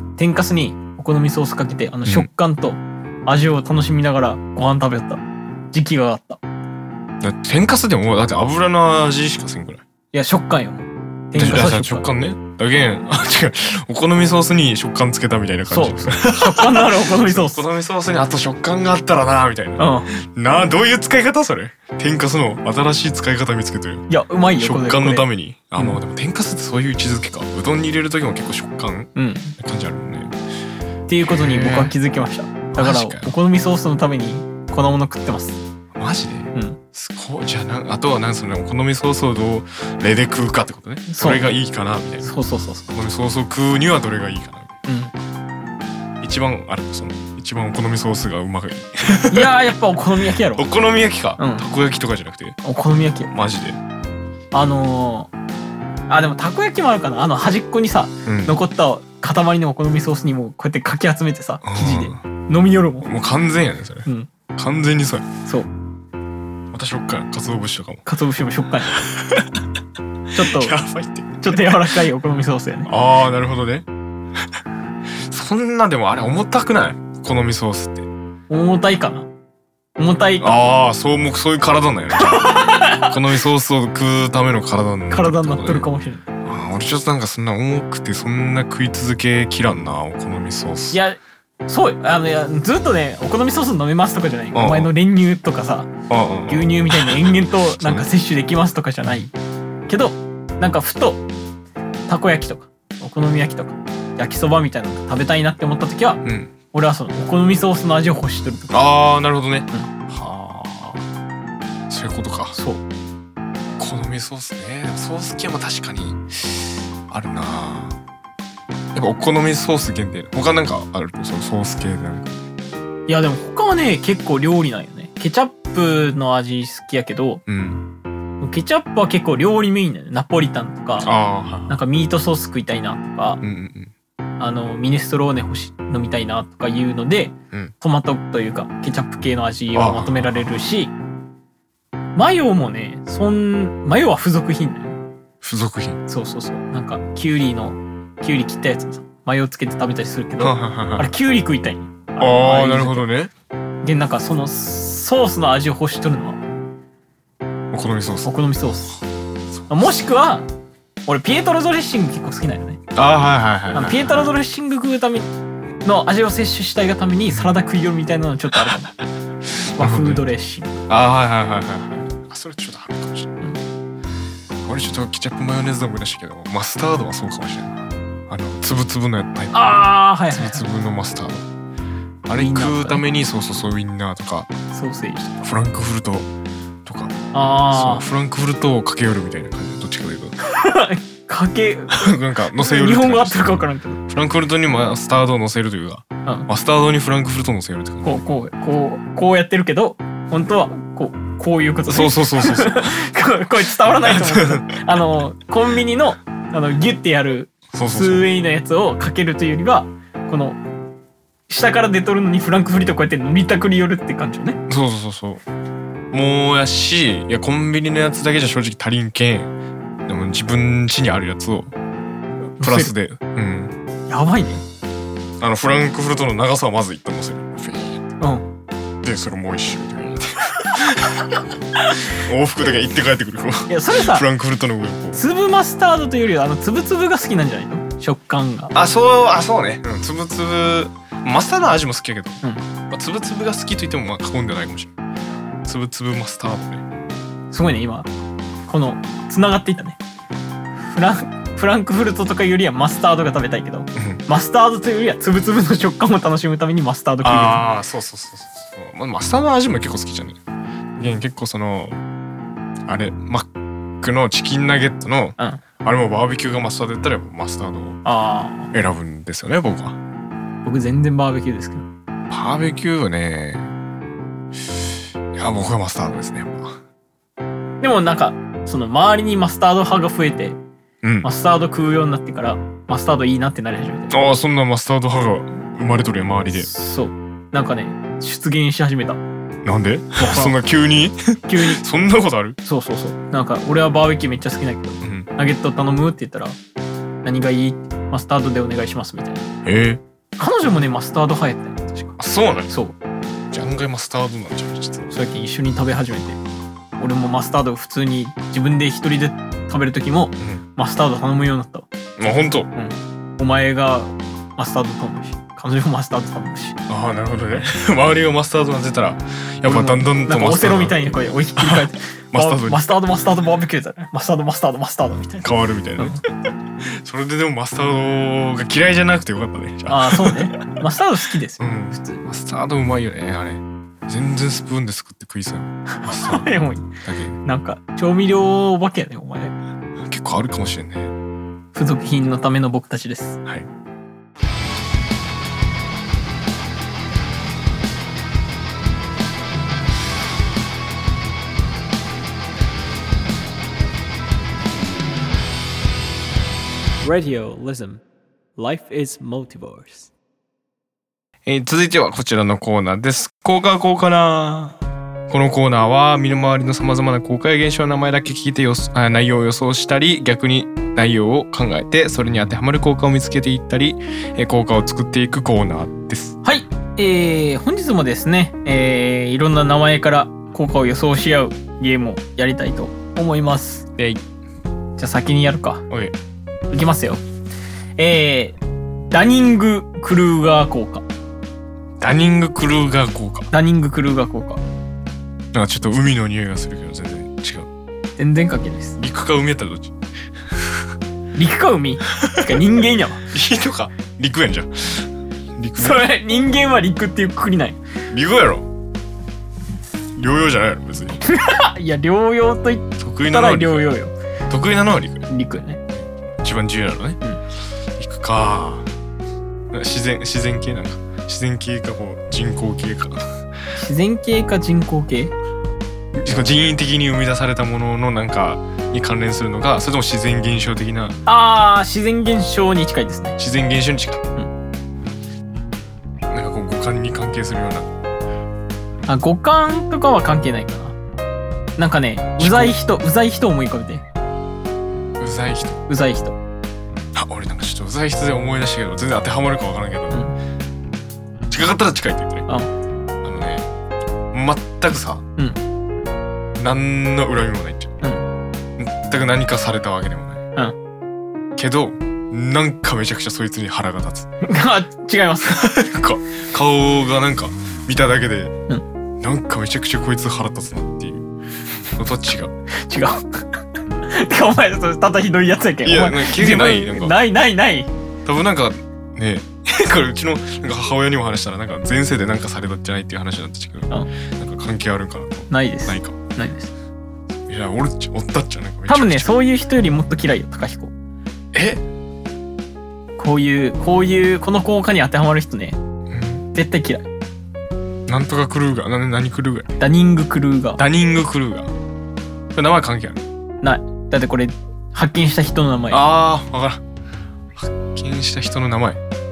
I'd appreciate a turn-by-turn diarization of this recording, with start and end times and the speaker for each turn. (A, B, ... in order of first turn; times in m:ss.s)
0:00.2-0:06.4 A
0:07.2-0:09.8 B
0:10.1-0:12.1 A
0:11.4-0:30.4 B
0:15.7-0:17.6 A
0:19.8-0:20.1 A
0:24.1-0:26.0 A
0:29.2-0:29.6 A
0:31.1-0:35.6 A
0:31.2-0:31.9 B
0:32.7-0:33.3 B
0:36.0-0:42.3 B
0:36.5-0:36.8 A
0:41.1-0:41.4 A
0:42.2-0:42.9 A
0:42.9-0:44.7 B
0:44.8-0:45.1 A
0:46.2-0:49.5 B
0:49.2-0:50.6 A
0:50.5-0:52.6 B
0:51.4-0:51.6 A
0:52.6-0:53.3 A
0:53.3-0:53.8 B
0:54.5-0:55.3 A
0:56.1-1:03.1 A
0:58.3-0:58.6 B
1:01.6-1:02.2 B
1:03.0-1:05.3 B
1:06.7-1:08.0 B
1:08.1-1:09.1 A
1:09.0-1:09.6 B
1:10.3-1:10.8 A
1:10.3-1:12.0 B
1:11.4-1:12.9 A
1:12.9-1:13.9 B
1:15.2-1:18.1 B
1:18.5-1:19.3 A
1:20.0-1:20.5 A
1:20.4-1:25.9 B
1:22.2-1:23.2 A
1:25.1-1:26.2 A
1:26.4-1:31.0 B
1:30.9-1:35.9 A
1:34.5-1:34.9 B
1:36.1-1:38.1 B
1:36.5-1:39.3 A
1:39.9-1:41.2 A
1:42.1-1:46.2 A
1:46.2-1:46.5 B
1:46.7-1:48.8 A
1:48.7-1:51.0 B
1:51.9-1:52.6 B
1:52.6-1:52.8 A
1:53.8-1:58.0 B
1:58.9-2:02.4 B
2:03.1-2:07.4 A
2:07.5-2:07.8 B
2:08.4-2:11.1 A
2:11.0-2:11.8 B
2:11.7-2:13.4 A
2:13.4-2:13.9 B
2:14.4-2:20.9 A
2:19.7-2:20.5 B
2:22.2-2:25.0 A
2:25.4-2:26.0 B
2:26.1-2:33.0 A
2:30.4-2:31.1 B
2:32.2-2:33.3 B
2:33.8-2:36.4 A
2:37.7-2:38.3 B
2:38.2-2:38.9 A
2:39.7-2:40.5 A
2:41.1-2:42.8 A
2:42.9-2:44.3 B
2:43.7-2:45.3 A
2:45.8-2:48.9 A
2:47.3-2:47.6 B
2:49.5-2:50.2 B
2:49.8-2:50.8 A
2:50.9-2:53.4 B
2:54.6-2:59.8 B
2:59.5-3:00.6 A
3:00.3-3:01.5 B
3:02.3-3:04.5 B
3:02.4-3:03.0 A
3:04.7-3:05.4 A
3:05.4-3:06.3 B
3:06.9-3:07.2 B
3:07.3-3:08.0 A
3:07.7-3:10.4 B
3:10.4-3:14.0 A
3:11.9-3:18.3 B
3:18.0-3:30.6 A
3:21.9-3:23.0 B
3:24.0-3:24.8 B
3:27.7-3:28.3 B
3:31.5-3:34.6 A
3:34.7-3:35.4 B
3:36.1-3:39.5 B
3:40.1-3:41.7 B
3:42.6-3:42.9 A
3:42.6-3:43.7 B
3:44.1-3:44.6 A
3:45.4-3:48.0 B
3:48.2-3:48.5 A
3:49.0-3:51.4 B
3:51.9-3:55.2 B
3:53.7-3:54.3 A
3:55.1-3:58.7 A
3:58.7-4:04.9 B
4:05.6-4:06.8 B
4:07.5-4:08.1 A
4:08.7-4:10.0 A
4:10.9-4:17.6 A
4:14.0-4:14.2 B
4:17.2-4:20.4 B
4:21.0-4:22.0 B
4:22.9-4:23.5 B
4:24.0-4:28.0 B
4:25.4-4:25.6 A
4:28.0-4:28.7 A
4:28.7-4:30.0 B
4:30.6-4:31.9 A
4:32.3-4:33.7 B
4:35.3-4:36.8 B
4:37.8-4:40.6 A
4:41.0-4:41.3 B
4:41.2-4:44.1 A
4:44.1-4:46.7 B
4:46.5-4:49.2 A
4:49.6-4:52.6 B
4:50.2-4:50.6 A
4:51.5-4:51.8 A
4:52.6-4:56.6 A
4:55.0-4:55.3 B
4:57.2-4:59.5 A
4:59.6-5:00.0 B
5:00.4-5:02.2 A
5:02.2-5:02.7 B
5:02.7-5:03.0 A
5:03.5-5:05.1 B
5:05.1-5:06.4 A
5:07.0-5:11.9 A
5:12.2-5:12.7 B
5:12.7-5:16.8 A
5:16.9-5:22.8 B
5:19.6-5:26.2 A
5:25.4-5:26.2 B
5:26.9-5:30.8 B
5:29.9-5:32.2 A
5:31.6-5:36.5 B
5:36.0-5:36.9 A
5:37.0-5:37.4 B
5:37.4-5:39.5 A
5:40.0-5:41.1 B
5:41.7-5:43.4 A
5:57.0-5:58.0 C
5:58.6-6:00.1 C
6:01.5-6:04.8 B
6:05.3-6:16.4 B
6:16.4-6:23.9 A
6:24.0-6:24.2 B
6:25.0-6:25.8 A
6:25.9-6:26.2 B
6:26.7-6:27.2 A
6:28.0-6:28.6 A
6:29.1-6:31.0 A
6:32.0-6:33.5 B
6:33.5-6:34.6 A
6:35.5-6:37.7 B
6:38.2-6:39.0 A
6:39.0-6:39.9 B
6:41.4-6:43.2 A
6:42.2-6:42.5 B
6:43.3-6:46.0 B
6:45.8-6:47.8 A
6:48.1-6:48.7 B
6:50.2-6:51.2 B
6:51.2-6:54.1 A
6:53.0-6:53.9 B
6:54.5-6:55.3 B
6:55.3-6:55.8 A
6:56.0-6:57.2 B
6:58.0-6:58.9 B
6:59.7-7:03.3 B
7:03.8-7:05.3 A
7:06.1-7:11.2 B
7:11.3-7:13.4 A
7:13.4-7:14.2 B
7:16.3-7:17.9 B
7:19.1-7:21.0 A
7:21.8-7:24.0 A
7:22.4-7:22.8 B
7:25.2-7:25.8 B
7:25.9-7:26.4 A
7:27.2-7:30.2 B
7:31.5-7:32.5 B
7:33.2-7:33.7 B
7:34.3-7:35.2 B
7:36.6-7:38.0 B
7:38.8-7:40.4 B
7:41.6-7:44.3 B
7:44.4-7:45.7 A
7:45.5-7:48.5 B
7:49.2-7:51.3 B
7:51.9-7:52.5 B
7:52.8-7:57.9 A
7:55.8-7:57.2 B
7:58.2-8:06.2 B
8:05.5-8:06.7 A
8:07.5-8:09.3 B
8:08.9-8:10.9 A
8:11.5-8:11.8 B
8:13.2-8:15.8 A
8:16.1-8:16.4 B
8:16.5-8:17.1 A
8:18.1-8:19.7 B
8:19.8-8:20.8 A
8:20.8-8:21.7 B
8:22.6-8:23.2 B
8:23.6-8:26.0 A
8:25.9-8:26.8 B
8:27.6-8:29.0 B